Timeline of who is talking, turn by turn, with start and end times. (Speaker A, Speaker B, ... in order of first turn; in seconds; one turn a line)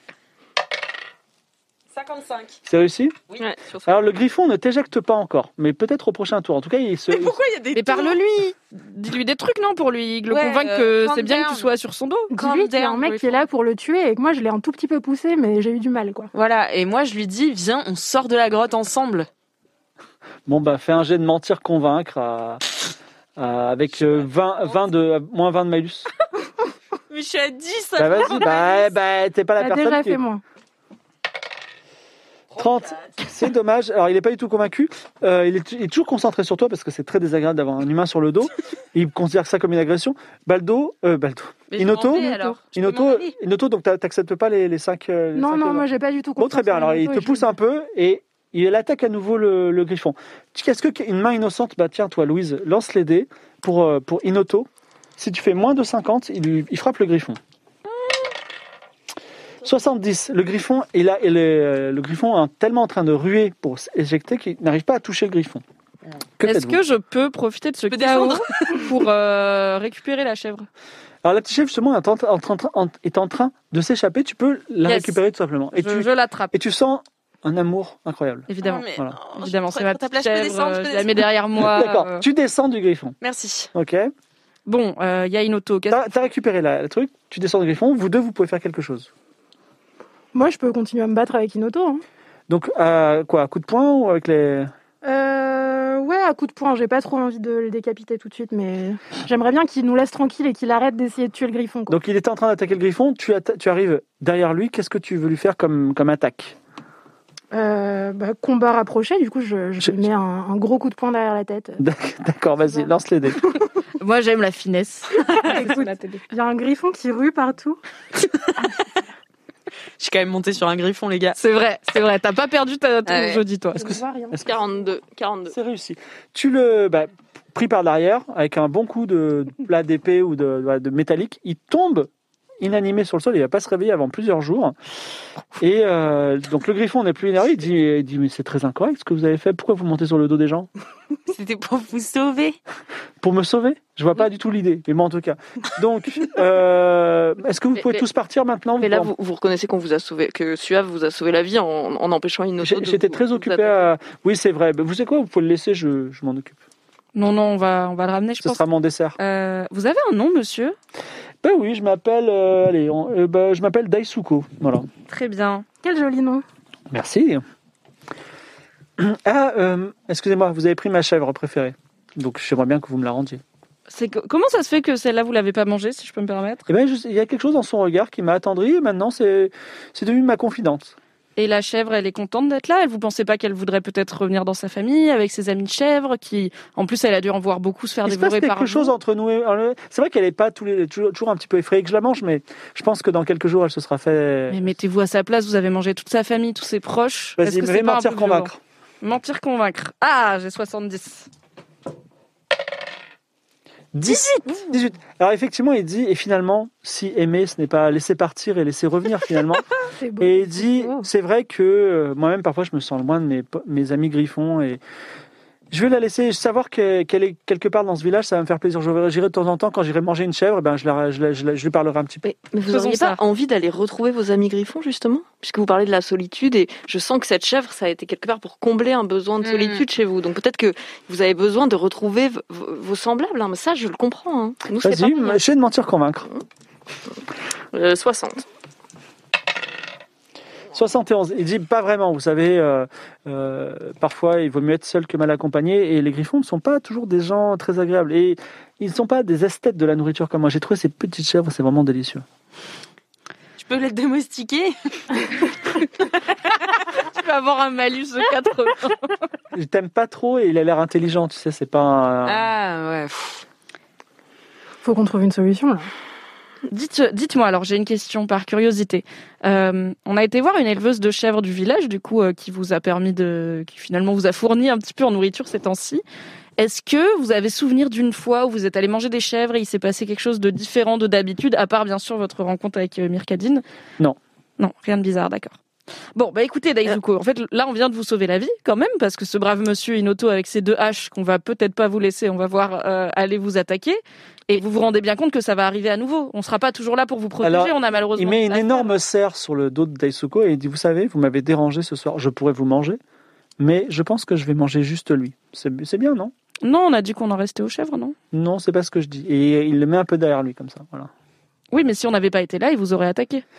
Speaker A: 1.9-2.6
Speaker B: 2.7-3.2
Speaker C: 3.4-3.9
Speaker B: 3.9-7.4
Speaker A: 7.1-8.2
Speaker D: 7.7-12.3
Speaker A: 10.3-11.7
Speaker E: 12.3-16.3
Speaker A: 12.4-13.5
Speaker A: 16.3-19.3
Speaker B: 20.5-22.6
Speaker B: 23.4-26.1
Speaker A: 23.9-24.8
Speaker A: 27.1-28.9
Speaker B: 28.0-30.2
Speaker E: 29.6-30.4
Speaker A: 32.5-33.3
Speaker B: 32.6-57.4
Speaker A: 41.7-43.4
Speaker E: 45.4-47.5
Speaker B: 59.6-65.6
Speaker B: 66.4-66.8
Speaker D: 66.4-70.7
Speaker A: 67.9-68.9
Speaker B: 71.2-79.2
Speaker D: 74.8-75.2
Speaker D: 75.7-76.5
Speaker D: 78.5-82.2
Speaker A: 78.6-81.3
Speaker B: 81.6-83.2
Speaker A: 83.2-83.7
Speaker B: 83.7-84.1
Speaker D: 84.7-86.1
Speaker B: 85.9-89.1
Speaker E: 90.3-92.0
Speaker B: 92.5-94.7
Speaker E: 95.0-102.0
Speaker B: 101.9-106.6
Speaker E: 107.5-111.8
Speaker B: 109.8-110.1
Speaker B: 111.8-113.4
Speaker E: 112.7-112.9
Speaker D: 114.0-115.7
Speaker E: 115.3-117.8
Speaker A: 120.0-121.4
Speaker D: 121.3-123.8
Speaker A: 123.1-123.4
Speaker E: 123.7-124.4
Speaker B: 123.8-124.5
Speaker C: 124.4-125.6
Speaker B: 125.5-134.8
Speaker B: 135.6-140.7
Speaker A: 141.3-142.6
Speaker B: 143.2-149.1
Speaker C: 147.8-148.0
Speaker C: 148.8-153.9
Speaker B: 152.6-156.6
Speaker D: 157.2-158.6
Speaker B: 158.4-159.2
Speaker D: 159.2-160.8
Speaker B: 161.4-164.9
Speaker D: 165.1-165.7
Speaker E: 165.8-166.4
Speaker B: 166.9-167.4
Speaker B: 169.0-173.4
Speaker D: 173.9-176.7
Speaker B: 176.7-180.9
Speaker D: 181.4-188.9
Speaker B: 188.1-194.6
Speaker D: 194.5-198.5
Speaker B: 197.4-198.6
Speaker D: 199.0-201.3
Speaker B: 203.9-209.7
Speaker E: 210.0-211.1
Speaker B: 210.2-214.8
Speaker B: 215.7-222.2
Speaker C: 222.2-235.4
Speaker D: 222.7-223.2
Speaker A: 229.4-229.8
Speaker B: 234.8-236.3
Speaker C: 237.7-238.4
Speaker B: 240.7-252.2
Speaker A: 253.6-255.4
Speaker D: 256.9-259.2
Speaker B: 259.5-262.5
Speaker A: 262.3-263.4
Speaker E: 264.8-265.9
Speaker D: 266.7-276.0
Speaker D: 276.6-283.6
Speaker D: 284.6-285.6
Speaker D: 286.1-298.9
Speaker B: 297.4-303.0
Speaker B: 303.6-306.3
Speaker D: 306.6-308.2
Speaker B: 308.3-311.1
Speaker D: 311.7-313.4